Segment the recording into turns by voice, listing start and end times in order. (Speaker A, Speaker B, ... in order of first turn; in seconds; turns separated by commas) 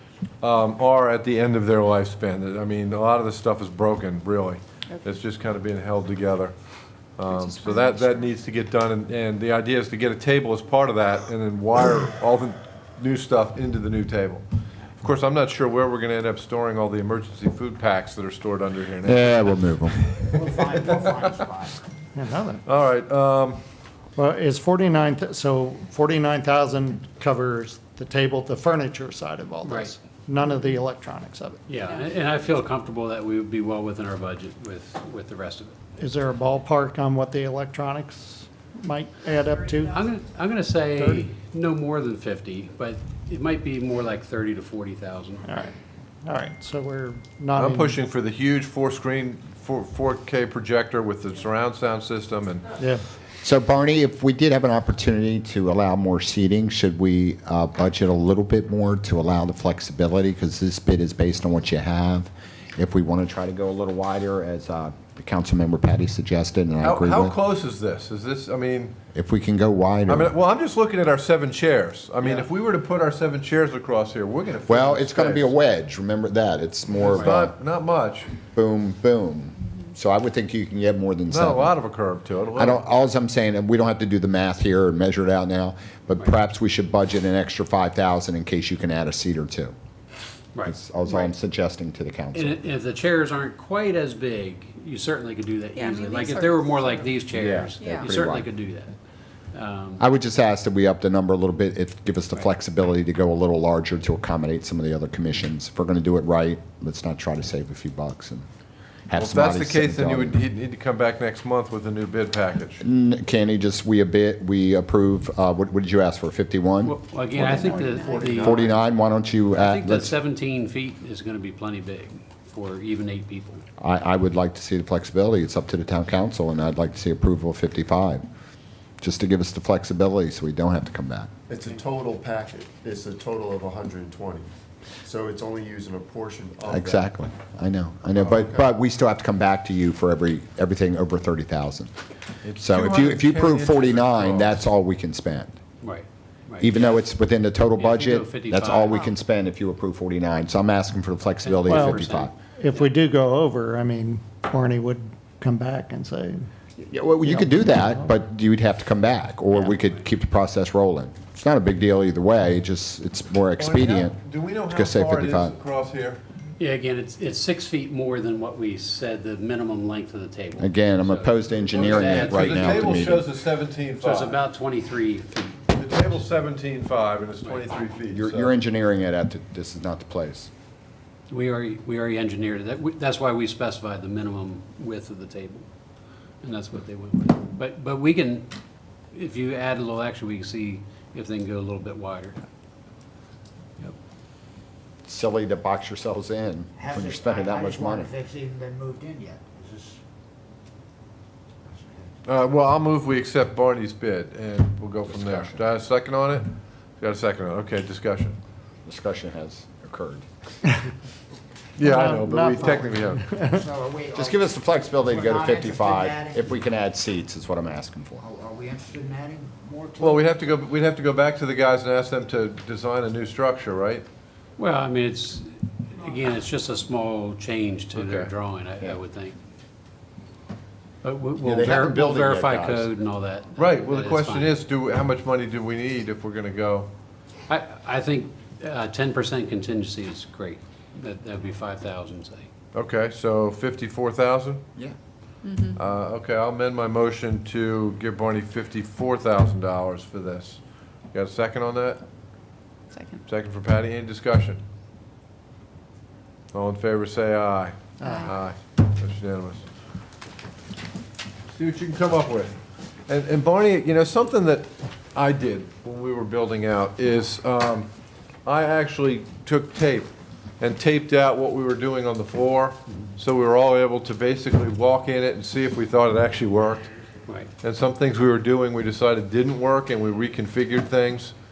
Speaker A: 0.4-6.5, Speaker A: 7.2-14.4, Speaker B: 7.6-8.3, Speaker A: 15.0-21.5, Speaker C: 19.0-20.0, Speaker D: 20.3-21.8, Speaker E: 22.1-22.6, Speaker A: 22.7-23.6, Speaker E: 24.2-31.6, Speaker F: 29.6-29.9, Speaker F: 31.7-35.8, Speaker E: 36.0-40.0, Speaker F: 39.8-45.6, Speaker E: 41.0-41.3, Speaker E: 45.5-48.0, Speaker A: 47.5-52.7, Speaker E: 52.8-53.0, Speaker C: 53.4-67.4, Speaker A: 66.8-69.0, Speaker C: 69.2-70.3, Speaker A: 70.1-75.6, Speaker C: 74.7-77.5, Speaker A: 77.0-78.3, Speaker C: 78.5-81.8, Speaker A: 81.3-82.8, Speaker C: 82.6-89.7, Speaker C: 90.6-92.6, Speaker F: 92.3-99.0, Speaker B: 95.8-97.2, Speaker C: 97.3-98.5, Speaker B: 97.8-98.1, Speaker F: 99.5-100.1, Speaker C: 100.0-108.5, Speaker C: 109.1-110.4, Speaker A: 109.1-112.8, Speaker C: 112.8-117.0, Speaker F: 116.8-118.6, Speaker G: 117.3-118.8, Speaker B: 117.5-118.2, Speaker C: 118.3-120.2, Speaker F: 119.5-123.6, Speaker C: 123.8-128.2, Speaker C: 129.0-131.3, Speaker G: 131.5-134.5, Speaker G: 135.0-137.2, Speaker C: 136.7-141.9, Speaker G: 138.1-138.7, Speaker A: 142.4-144.7, Speaker C: 142.6-145.6, Speaker F: 145.8-147.1, Speaker C: 146.6-152.3, Speaker F: 147.8-149.1, Speaker F: 151.4-152.9, Speaker E: 151.7-152.0, Speaker E: 152.5-156.5, Speaker C: 156.8-164.2, Speaker E: 157.3-158.1, Speaker A: 163.6-166.2, Speaker C: 164.7-165.6, Speaker F: 166.6-173.2, Speaker C: 170.6-173.3, Speaker A: 171.7-174.4, Speaker F: 174.0-175.6, Speaker A: 175.7-178.5, Speaker F: 177.4-177.7, Speaker C: 178.1-180.5, Speaker F: 181.3-185.7, Speaker F: 186.4-188.5, Speaker F: 189.1-192.4, Speaker C: 195.1-198.1, Speaker D: 196.8-200.0, Speaker D: 201.7-202.1, Speaker A: 202.3-208.4, Speaker C: 205.1-205.6, Speaker C: 208.8-210.2, Speaker A: 211.8-213.3, Speaker E: 211.8-213.6, Speaker D: 213.3-214.4, Speaker C: 214.2-218.2, Speaker D: 215.0-216.5, Speaker D: 218.2-220.3, Speaker A: 220.0-224.1, Speaker F: 224.6-229.4, Speaker A: 227.9-228.3, Speaker F: 231.0-234.6, Speaker C: 231.4-232.9, Speaker A: 233.6-236.9, Speaker F: 237.5-242.5, Speaker A: 242.7-244.6, Speaker B: 245.4-245.8, Speaker A: 245.7-250.6, Speaker A: 251.1-252.0, Speaker B: 252.9-253.2, Speaker A: 253.3-254.6, Speaker A: 256.5-259.7, Speaker B: 258.0-258.3, Speaker A: 261.5-262.5, Speaker A: 263.1-267.9, Speaker A: 268.4-276.9, Speaker A: 277.6-281.4